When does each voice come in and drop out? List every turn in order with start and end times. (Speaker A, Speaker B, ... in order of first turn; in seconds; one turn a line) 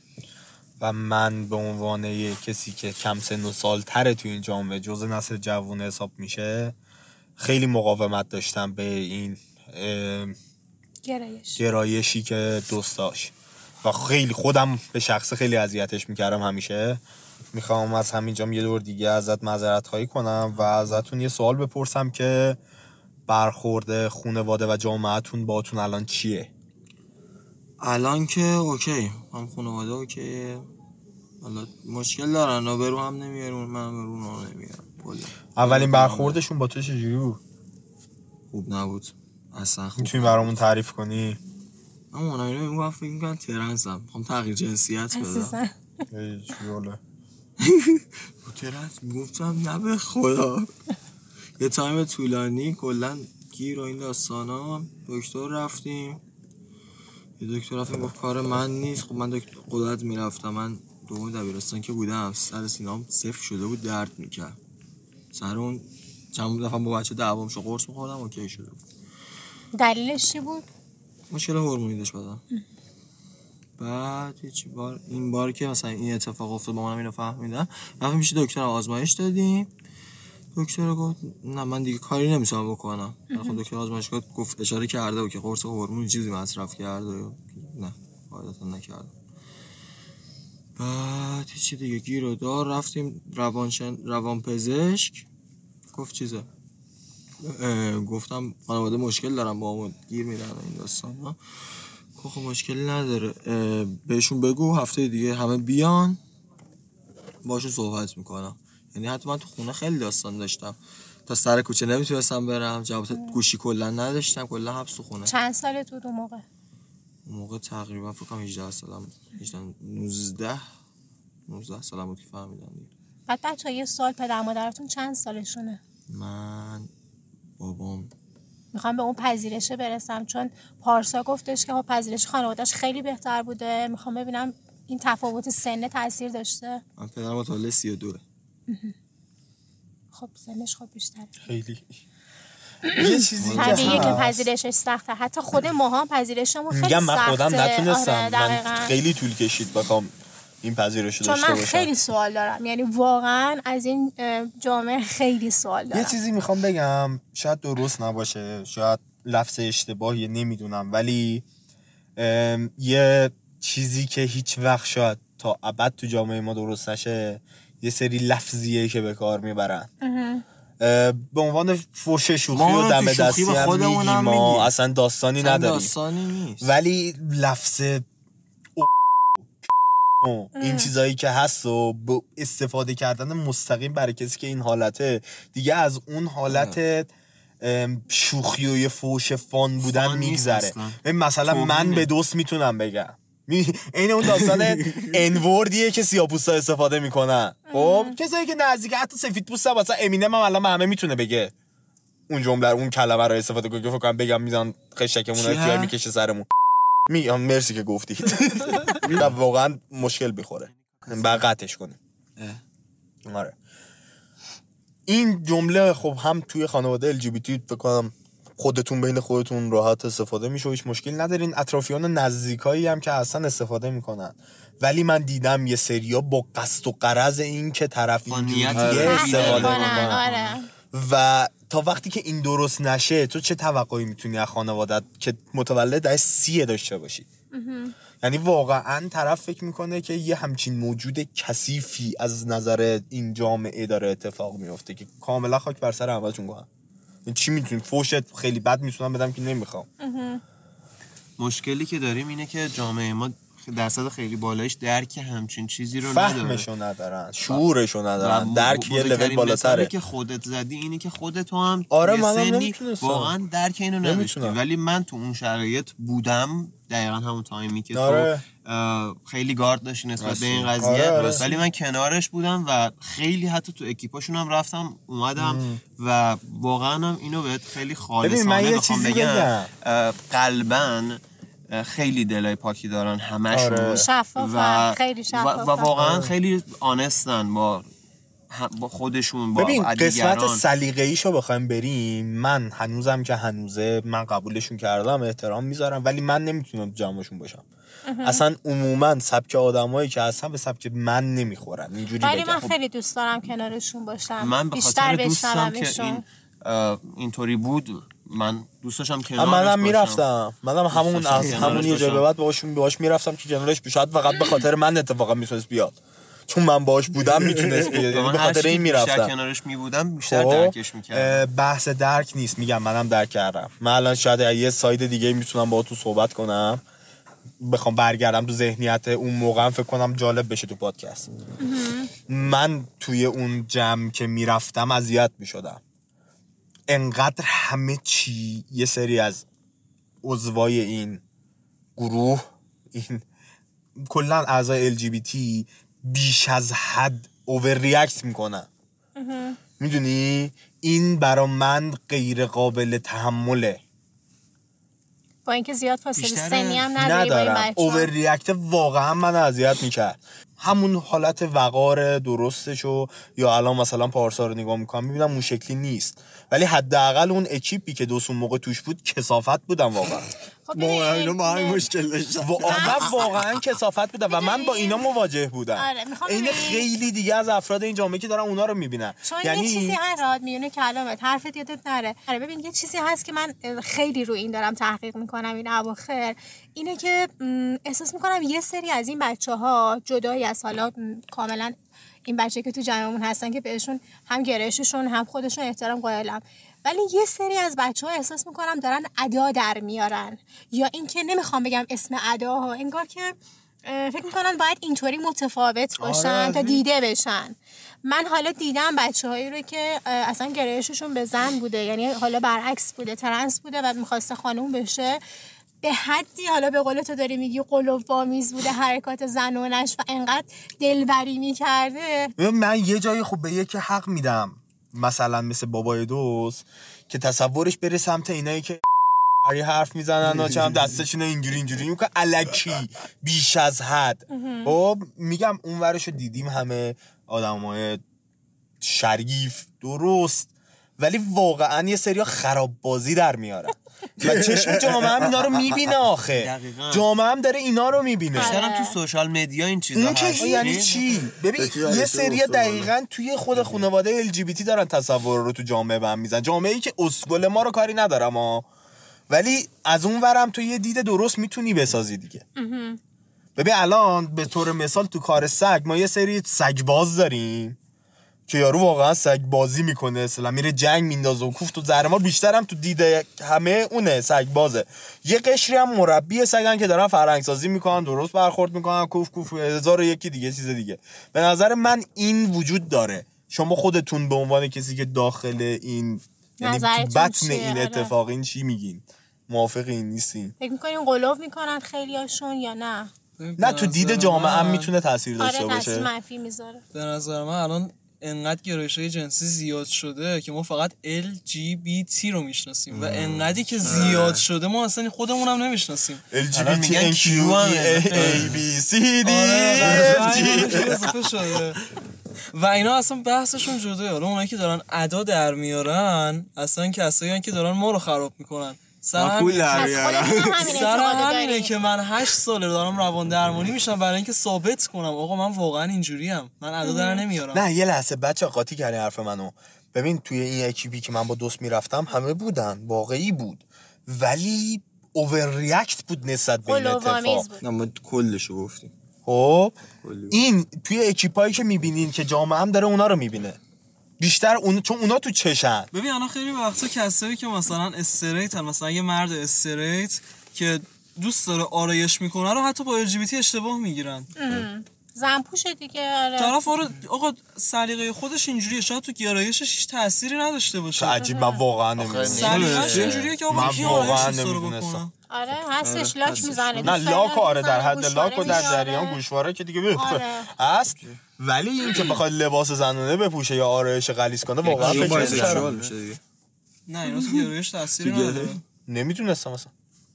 Speaker A: 0.8-6.7
Speaker A: 7.4-10.3
Speaker B: 11.0-11.6
Speaker A: 11.6-13.3
Speaker A: 13.8-17.0
Speaker A: 17.5-22.6
Speaker A: 23.3-26.5
Speaker C: 27.8-30.7
Speaker C: 31.4-36.4
Speaker A: 35.5-37.4
Speaker C: 38.5-40.5
Speaker A: 40.0-41.4
Speaker C: 42.1-45.6
Speaker B: 45.1-45.7
Speaker A: 46.1-47.0
Speaker C: 47.6-50.7
Speaker C: 51.6-56.2
Speaker C: 57.4-64.6
Speaker C: 65.3-68.8
Speaker B: 69.8-70.7
Speaker C: 71.3-72.4
Speaker C: 73.8-79.7
Speaker C: 80.5-89.1
Speaker B: 83.3-83.6
Speaker C: 90.8-95.3
Speaker C: 95.9-96.5
Speaker C: 97.4-101.4
Speaker C: 102.1-106.2
Speaker C: 107.4-115.3
Speaker B: 113.1-113.4
Speaker B: 115.2-116.4
Speaker C: 117.2-120.6
Speaker C: 121.5-122.9
Speaker B: 123.3-125.8
Speaker C: 126.1-126.9
Speaker C: 127.6-128.1
Speaker B: 128.7-136.8
Speaker C: 137.0-138.2
Speaker B: 138.7-138.9
Speaker B: 140.1-141.3
Speaker A: 141.4-141.9
Speaker B: 142.8-148.9
Speaker A: 142.9-144.4
Speaker C: 143.3-144.3
Speaker A: 146.7-151.9
Speaker B: 151.2-156.2
Speaker A: 155.9-161.4
Speaker A: 162.2-169.9
Speaker B: 170.0-170.4
Speaker A: 170.8-175.9
Speaker C: 172.5-174.7
Speaker C: 175.4-176.7
Speaker A: 176.6-178.0
Speaker A: 178.8-179.5
Speaker A: 180.2-201.5
Speaker B: 180.6-180.9
Speaker C: 186.5-186.8
Speaker D: 189.8-192.1
Speaker C: 194.3-195.1
Speaker B: 197.7-198.2
Speaker A: 202.3-206.5
Speaker C: 205.4-205.9
Speaker A: 207.1-212.0
Speaker A: 213.2-213.5
Speaker A: 215.1-230.2
Speaker D: 228.3-230.5
Speaker C: 228.7-229.6
Speaker B: 229.0-230.7
Speaker A: 230.9-237.3
Speaker B: 237.5-237.9
Speaker A: 238.2-246.7
Speaker A: 247.2-249.9
Speaker B: 250.0-250.4
Speaker D: 251.4-256.6
Speaker A: 256.0-259.9
Speaker D: 258.2-287.9
Speaker A: 261.9-263.3
Speaker A: 264.0-264.6
Speaker A: 267.9-268.4
Speaker A: 270.2-271.5
Speaker A: 275.4-275.8
Speaker A: 278.2-279.7
Speaker A: 283.5-284.1
Speaker B: 283.9-285.9
Speaker A: 285.9-286.3
Speaker D: 288.5-290.6
Speaker A: 289.6-297.6
Speaker B: 298.1-298.4
Speaker A: 298.2-302.7
Speaker B: 302.2-306.2
Speaker D: 304.4-310.2
Speaker A: 309.4-316.0
Speaker D: 310.9-312.2
Speaker A: 316.5-319.3
Speaker C: 317.3-318.0
Speaker D: 318.0-321.4
Speaker A: 320.2-326.8
Speaker A: 327.6-331.3
Speaker B: 331.6-332.1
Speaker A: 332.3-335.8
Speaker A: 336.9-339.4
Speaker A: 340.2-341.2
Speaker A: 341.9-343.2
Speaker A: 344.0-348.7
Speaker B: 349.1-349.6
Speaker A: 349.8-353.8
Speaker B: 355.4-358.1
Speaker D: 356.2-356.9
Speaker A: 356.9-370.3
Speaker B: 370.7-371.9
Speaker C: 370.7-373.3
Speaker A: 372.4-380.0
Speaker B: 372.6-373.4
Speaker B: 374.3-375.1
Speaker B: 375.7-376.9
Speaker B: 379.2-391.7
Speaker B: 392.3-415.2
Speaker C: 406.0-406.8
Speaker B: 415.8-422.3
Speaker A: 422.4-428.8
Speaker A: 429.4-438.0
Speaker C: 430.2-431.0
Speaker B: 434.3-434.8
Speaker A: 438.8-448.6
Speaker C: 444.2-445.7
Speaker D: 446.3-447.1
Speaker B: 448.3-448.9
Speaker D: 448.4-451.3
Speaker A: 449.9-458.6
Speaker B: 450.4-450.7
Speaker C: 451.6-452.9
Speaker C: 453.5-453.8
Speaker A: 459.3-462.4
Speaker B: 462.6-463.0
Speaker A: 463.6-467.8
Speaker A: 468.5-490.5
Speaker B: 486.6-488.1
Speaker B: 490.6-493.1
Speaker E: 493.4-494.9
Speaker A: 493.6-496.1
Speaker B: 495.4-496.8
Speaker E: 496.9-506.2
Speaker C: 502.9-504.4
Speaker A: 506.3-511.1
Speaker D: 506.5-508.5
Speaker C: 508.3-508.6
Speaker E: 509.2-511.8
Speaker C: 509.8-511.1
Speaker E: 512.5-520.0
Speaker C: 519.1-520.8
Speaker B: 519.7-521.7
Speaker E: 520.6-527.6
Speaker B: 526.8-527.2
Speaker A: 527.5-537.5
Speaker B: 536.6-537.6
Speaker C: 537.6-538.9
Speaker A: 539.2-543.6
Speaker C: 540.0-540.4
Speaker A: 544.2-545.9
Speaker E: 545.9-554.3
Speaker B: 554.4-556.5
Speaker E: 556.4-561.3
Speaker A: 560.9-565.0
Speaker B: 561.2-561.6
Speaker D: 562.0-564.3
Speaker E: 562.2-565.1
Speaker B: 565.3-569.2
Speaker C: 565.8-567.0
Speaker A: 566.8-575.7
Speaker B: 569.9-570.5
Speaker C: 574.6-576.2
Speaker D: 574.7-575.7
Speaker E: 576.9-578.6
Speaker B: 577.1-577.4
Speaker C: 578.0-578.6
Speaker A: 578.9-579.7